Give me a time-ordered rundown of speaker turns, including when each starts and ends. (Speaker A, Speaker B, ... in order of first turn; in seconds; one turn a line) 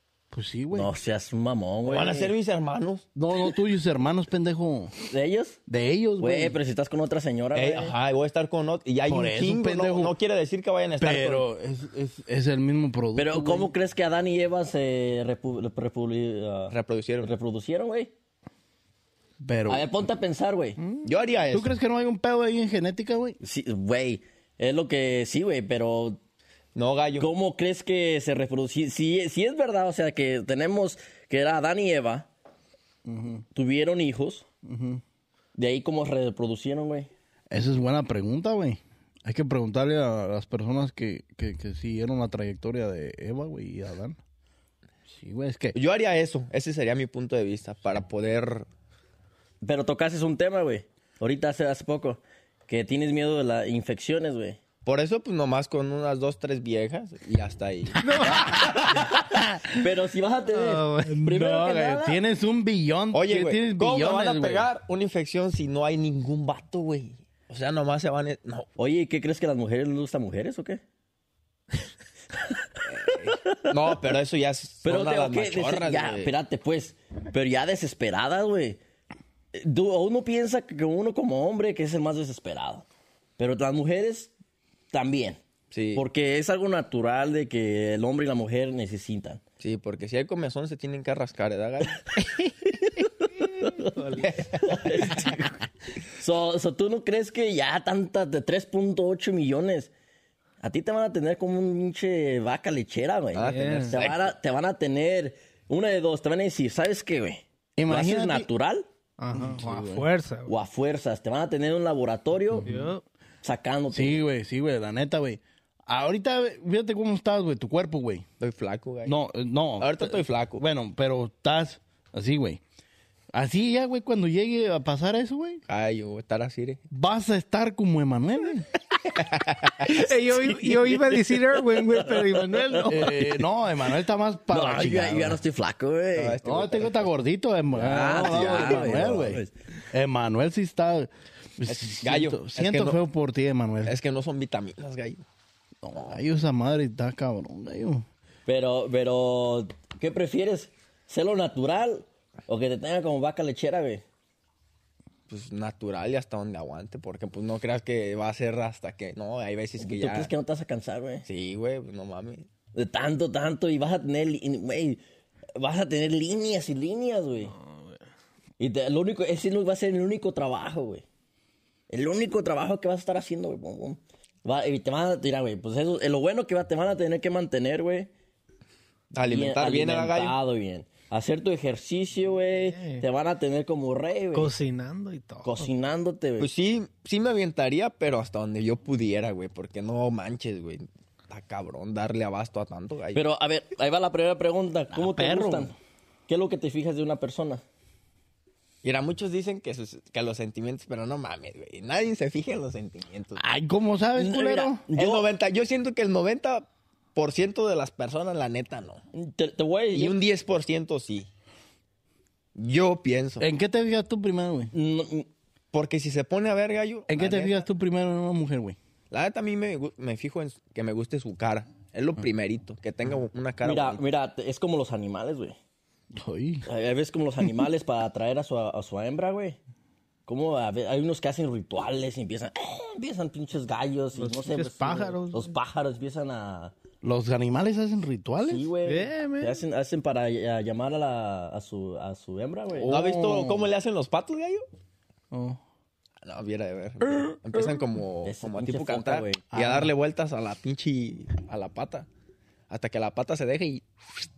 Speaker A: 0.3-0.9
Speaker B: 0.7-2.3
Speaker C: 1.9-3.1
Speaker A: 3.2-5.0
Speaker B: 5.0-5.6
Speaker A: 5.7-6.6
Speaker B: 6.2-7.9
Speaker C: 7.5-11.5
Speaker A: 9.1-10.1
Speaker A: 11.0-13.7
Speaker B: 13.2-18.1
Speaker C: 16.7-17.4
Speaker A: 19.4-19.9
Speaker B: 19.7-20.8
Speaker C: 21.0-21.7
Speaker A: 21.5-23.4
Speaker B: 23.4-26.2
Speaker C: 26.8-27.3
Speaker B: 27.2-32.3
Speaker A: 33.0-33.5
Speaker B: 33.5-34.5
Speaker A: 34.6-35.0
Speaker B: 35.6-37.1
Speaker A: 37.5-44.2
Speaker A: 45.1-45.8
Speaker C: 45.7-48.7
Speaker B: 49.6-54.6
Speaker C: 54.9-58.1
Speaker A: 58.0-59.0
Speaker D: 58.2-58.5
Speaker B: 59.0-62.2
Speaker A: 59.5-59.8
Speaker D: 60.5-61.1
Speaker A: 61.1-64.7
Speaker C: 63.1-68.7
Speaker B: 68.8-70.8
Speaker C: 72.9-76.3
Speaker B: 73.4-73.9
Speaker B: 74.8-78.8
Speaker B: 79.5-82.9
Speaker B: 83.4-84.3
Speaker B: 84.9-85.4
Speaker C: 85.7-86.0
Speaker B: 85.9-89.4
Speaker C: 89.6-92.1
Speaker B: 92.7-99.9
Speaker D: 94.0-94.3
Speaker C: 94.2-95.3
Speaker B: 100.6-108.9
Speaker C: 103.3-104.3
Speaker D: 103.5-104.0
Speaker A: 107.8-108.5
Speaker D: 109.2-110.5
Speaker A: 109.3-110.1
Speaker B: 110.5-112.7
Speaker A: 112.5-112.9
Speaker D: 112.7-113.0
Speaker B: 113.4-114.2
Speaker A: 113.9-118.3
Speaker C: 118.4-119.2
Speaker A: 119.1-122.6
Speaker C: 119.8-120.6
Speaker A: 123.3-125.6
Speaker C: 125.7-126.8
Speaker A: 126.9-128.7
Speaker C: 129.1-130.0
Speaker D: 129.8-133.2
Speaker B: 131.7-133.3
Speaker A: 132.9-135.4
Speaker B: 134.5-136.4
Speaker C: 136.2-137.1
Speaker A: 136.4-143.9
Speaker B: 137.7-139.5
Speaker C: 138.1-139.1
Speaker C: 141.7-143.0
Speaker C: 143.9-145.2
Speaker A: 145.8-148.1
Speaker B: 148.5-154.0
Speaker C: 155.3-160.3
Speaker B: 159.8-161.2
Speaker C: 161.3-162.5
Speaker B: 162.7-165.0
Speaker B: 165.6-167.5
Speaker B: 168.6-171.1
Speaker B: 171.9-178.1
Speaker C: 179.1-180.4
Speaker B: 179.3-184.5
Speaker D: 182.6-183.0
Speaker D: 184.3-185.7
Speaker B: 185.4-186.5
Speaker C: 186.4-193.2
Speaker B: 193.1-195.8
Speaker A: 194.9-195.7
Speaker B: 196.3-197.6
Speaker C: 198.8-203.4
Speaker A: 203.4-204.9
Speaker B: 204.2-205.3
Speaker C: 204.9-209.0
Speaker B: 209.1-210.2
Speaker C: 209.9-211.3
Speaker C: 212.6-213.5
Speaker A: 213.4-214.7
Speaker B: 214.7-215.3
Speaker C: 215.7-217.7
Speaker A: 217.1-218.8
Speaker C: 219.1-224.0
Speaker B: 223.6-225.6
Speaker A: 226.2-226.7
Speaker B: 226.7-229.6
Speaker B: 230.3-236.8
Speaker D: 234.2-235.5
Speaker A: 237.0-238.7
Speaker B: 238.4-243.0
Speaker D: 238.8-239.6
Speaker A: 242.8-243.7
Speaker C: 242.8-244.7
Speaker A: 245.3-245.6
Speaker C: 246.2-252.1
Speaker B: 248.2-249.5
Speaker A: 249.5-249.9
Speaker C: 252.7-253.8